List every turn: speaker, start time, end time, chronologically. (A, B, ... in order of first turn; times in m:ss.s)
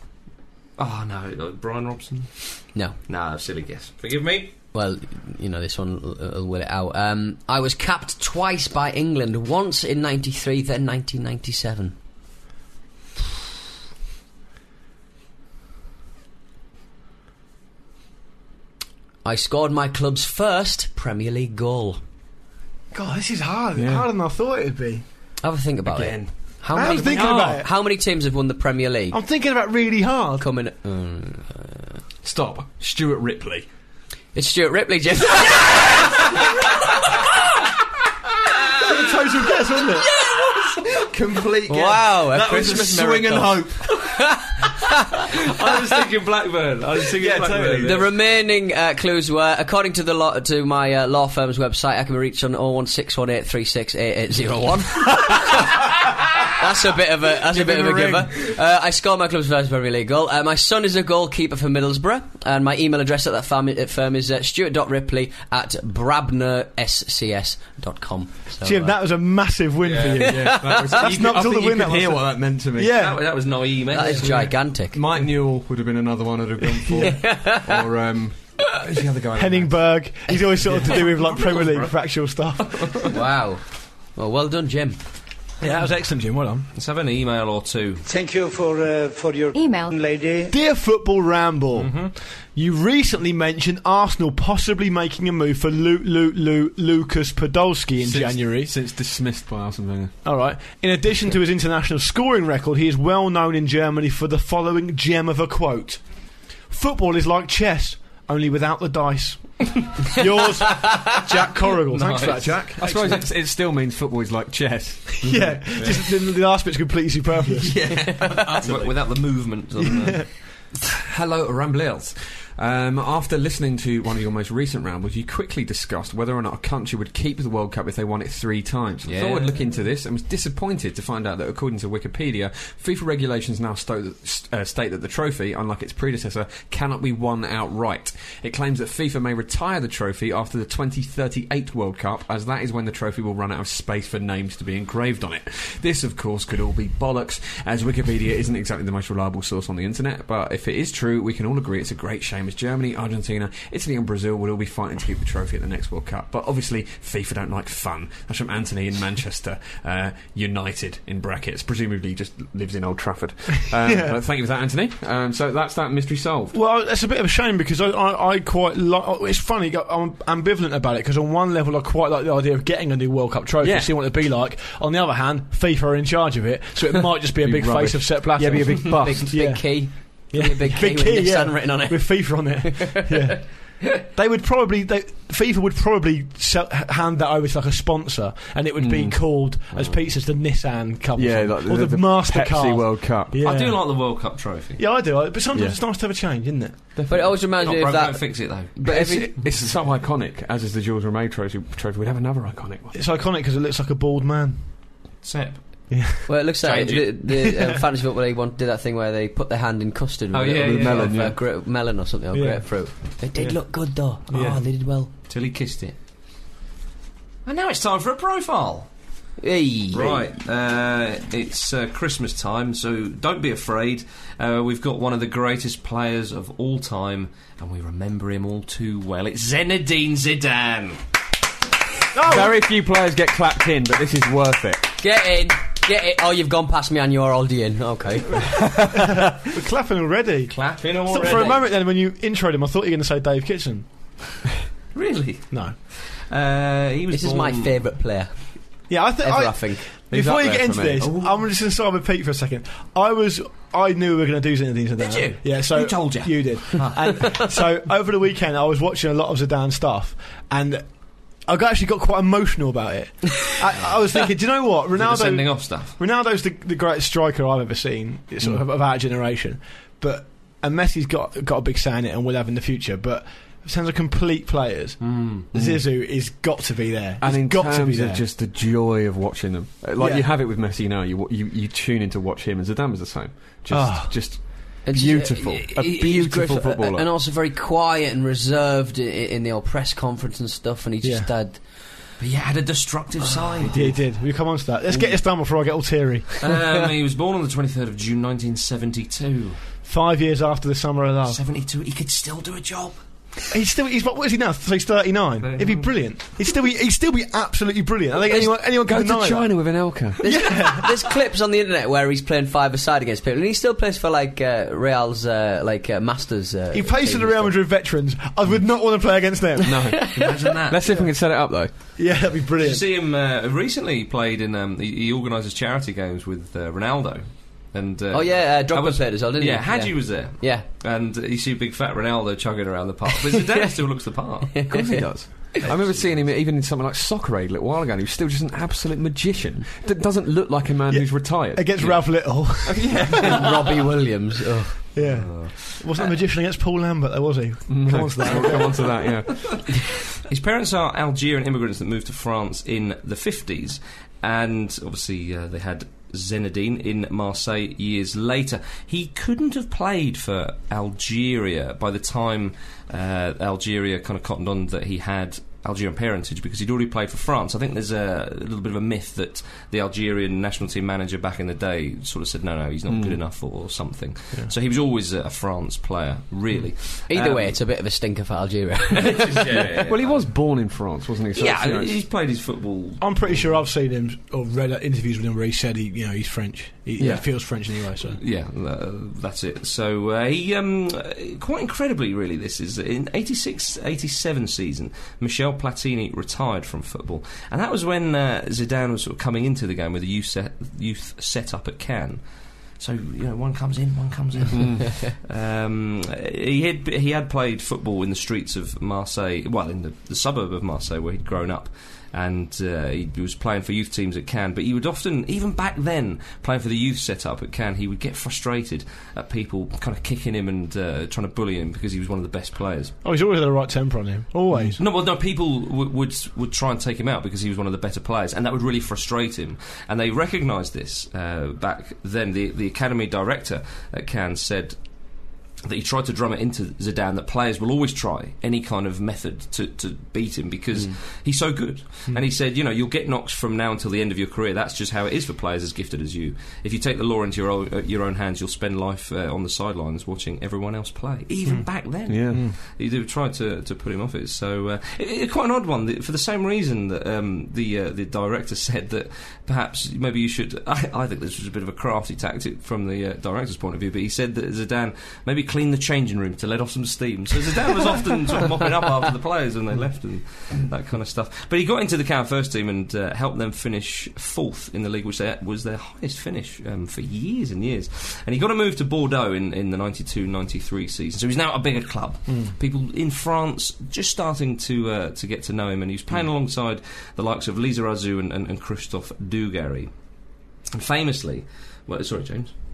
0:00.8-0:04.5 A
0:04.7-0:11.9 B
0:19.2-0:22.0 B
0:22.9-0:25.0 C
0:23.7-0:24.1 D
0:25.4-0:29.2 B
0:25.9-0:27.3 D
0:26.7-0:27.7 C
0:29.1-0:30.4 C
0:30.4-0:32.0 B
0:32.2-0:33.7 D
0:34.3-0:36.2 B
0:38.8-0:40.1 C
0:40.2-0:41.0 A
0:41.0-0:43.9 D
0:41.7-0:45.0 B
0:45.4-0:48.1 A
0:47.2-0:48.1 D
0:47.8-1:09.0 B
0:57.5-0:58.3 D
1:08.6-1:13.2 C
1:09.8-1:10.2 A
1:10.2-1:13.1 D
1:10.3-1:11.0 B
1:12.9-1:14.5 A
1:13.9-1:15.0 B
1:14.0-1:19.9 D
1:16.8-1:17.1 C
1:17.0-1:17.8 B
1:19.3-1:23.1 C
1:20.6-1:21.0 D
1:20.8-1:21.9 A
1:23.1-1:25.0 B
1:25.6-1:26.7 C
1:26.7-1:28.0 A
1:28.0-1:30.5 E
1:30.5-1:38.7 C
1:31.7-1:32.1 A
1:38.0-1:40.2 D
1:40.2-1:46.1 C
1:46.6-1:53.2 C
1:51.9-1:52.7 A
1:52.8-1:56.1 D
1:55.2-1:57.8 C
1:55.8-1:56.0 A
1:57.5-1:59.2 D
1:58.0-1:58.5 B
1:58.6-2:00.3 A
1:59.8-2:00.3 C
2:00.8-2:46.6 D
2:09.0-2:09.6 A
2:43.8-2:44.2 C
2:46.5-3:16.8 C
2:53.6-2:54.2 D
2:57.2-2:59.6 D
2:58.9-3:03.0 B
3:08.8-3:09.5 D
3:09.7-3:10.0 A
3:11.1-3:13.4 D
3:13.4-3:14.8 A
3:15.5-3:15.8 D
3:16.9-3:17.4 D
3:17.1-3:19.3 B
3:17.5-3:18.7 A
3:18.8-3:23.0 D
3:22.9-3:24.6 C
3:25.2-3:25.9 A
3:25.9-3:26.3 C
3:26.2-3:35.1 B
3:26.6-3:27.2 A
3:30.3-3:31.3 A
3:30.6-3:31.4 D
3:32.3-3:33.6 C
3:34.3-3:34.6 C
3:35.3-3:36.0 A
3:37.4-3:38.9 A
3:39.4-3:40.3 B
3:39.9-3:51.0 A
3:52.1-3:52.6 C
3:52.2-3:55.0 D
3:55.0-3:58.8 B
3:59.3-4:03.9 C
4:00.5-4:01.7 A
4:01.2-4:01.6 B
4:04.9-4:07.8 A
4:07.1-4:09.9 B
4:08.9-4:38.2 C
4:10.1-4:11.2 D
4:11.0-4:11.3 A
4:15.0-4:17.4 A
4:23.8-4:24.0 A
4:25.0-4:26.0 A
4:35.0-4:35.4 A
4:35.5-4:35.9 D
4:37.2-4:47.1 D
4:40.0-4:40.3 C
4:43.7-4:44.3 C
4:44.8-4:51.6 B
4:51.0-4:51.3 C
4:52.2-4:53.9 A
4:53.6-4:54.0 D
4:53.6-4:56.4 C
4:56.4-4:59.6 A
4:59.8-5:01.4 C
5:01.3-5:03.0 A
5:03.5-5:10.9 C
5:05.4-5:06.0 A
5:08.3-5:10.5 D
5:10.2-5:17.6 B
5:16.7-5:19.9 C
5:19.6-5:22.0 D
5:20.1-5:20.9 A
5:21.9-5:22.8 C
5:22.6-5:34.6 A
5:28.1-5:30.6 B
5:34.5-5:35.5 B
5:34.7-5:43.5 D
5:35.6-5:36.3 A
5:40.9-5:43.1 C
5:43.2-5:44.8 B
5:44.9-5:48.9 C
5:45.0-5:46.1 A
5:47.7-5:49.8 D
5:48.2-5:48.9 A
5:50.2-6:17.6 A
6:12.9-6:13.2 D
6:17.1-6:19.4 B
6:18.9-6:20.3 A
6:19.4-6:22.0 D
6:21.3-6:23.6 A
6:23.0-6:28.2 C
6:27.0-6:27.2 D
6:28.2-6:42.2 A
6:42.7-7:02.9 A
6:44.5-6:44.8 D
7:03.0-7:04.8 C
7:04.8-7:14.8 A
7:15.6-8:09.9 A
7:31.4-7:32.6 C
7:32.1-7:32.5 D
8:02.3-8:02.5 C
8:10.7-8:12.5 A